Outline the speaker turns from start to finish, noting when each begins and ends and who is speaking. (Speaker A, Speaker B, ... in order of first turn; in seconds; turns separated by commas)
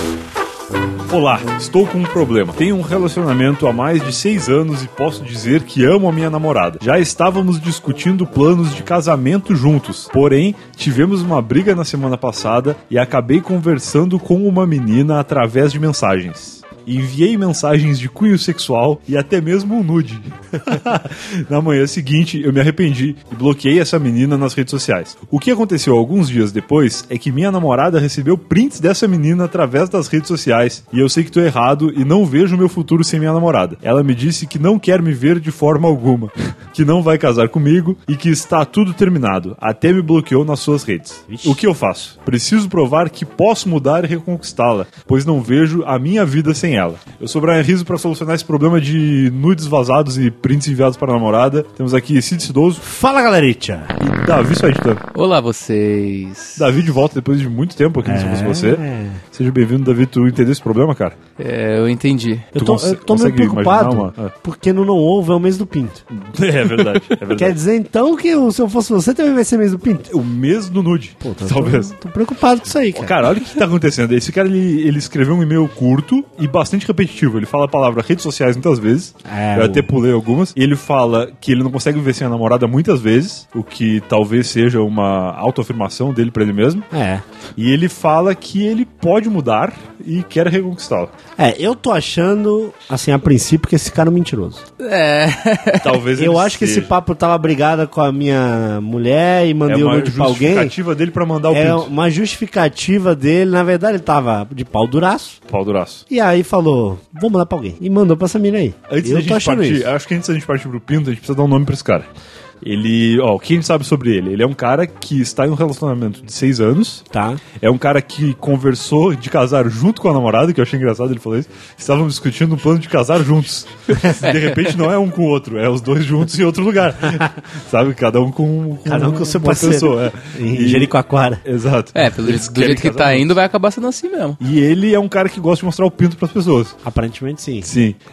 Speaker A: 1.1-52.8, Speaker B: 41.3-41.6, Speaker B: 52.8-54.0, Speaker A: 54.0-55.0, Speaker C: 55.1-56.6, Speaker A: 56.6-58.8, Speaker B: 58.0-59.2, Speaker A: 59.3-61.1, Speaker C: 61.4-62.5, Speaker A: 62.5-64.3, Speaker B: 62.5-66.0, Speaker A: 66.1-67.6, Speaker B: 66.9-70.1, Speaker A: 70.1-71.9, Speaker B: 71.2-73.3, Speaker A: 73.0-86.9, Speaker B: 79.3-79.9, Speaker B: 86.9-87.2, Speaker A: 87.6-91.1, Speaker B: 91.4-94.6, Speaker C: 94.8-96.0, Speaker A: 95.8-96.9, Speaker B: 96.2-100.7, Speaker A: 99.7-101.9, Speaker B: 101.5-105.4, Speaker A: 105.5-106.0, Speaker B: 106.1-109.9, Speaker A: 108.9-112.1, Speaker A: 112.6-117.0, Speaker B: 117.1-117.4, Speaker A: 117.6-133.4, Speaker C: 124.0-124.8, Speaker B: 128.8-131.4, Speaker C: 131.9-134.4, Speaker A: 134.4-136.8, Speaker B: 136.8-137.7, Speaker A: 137.6-138.0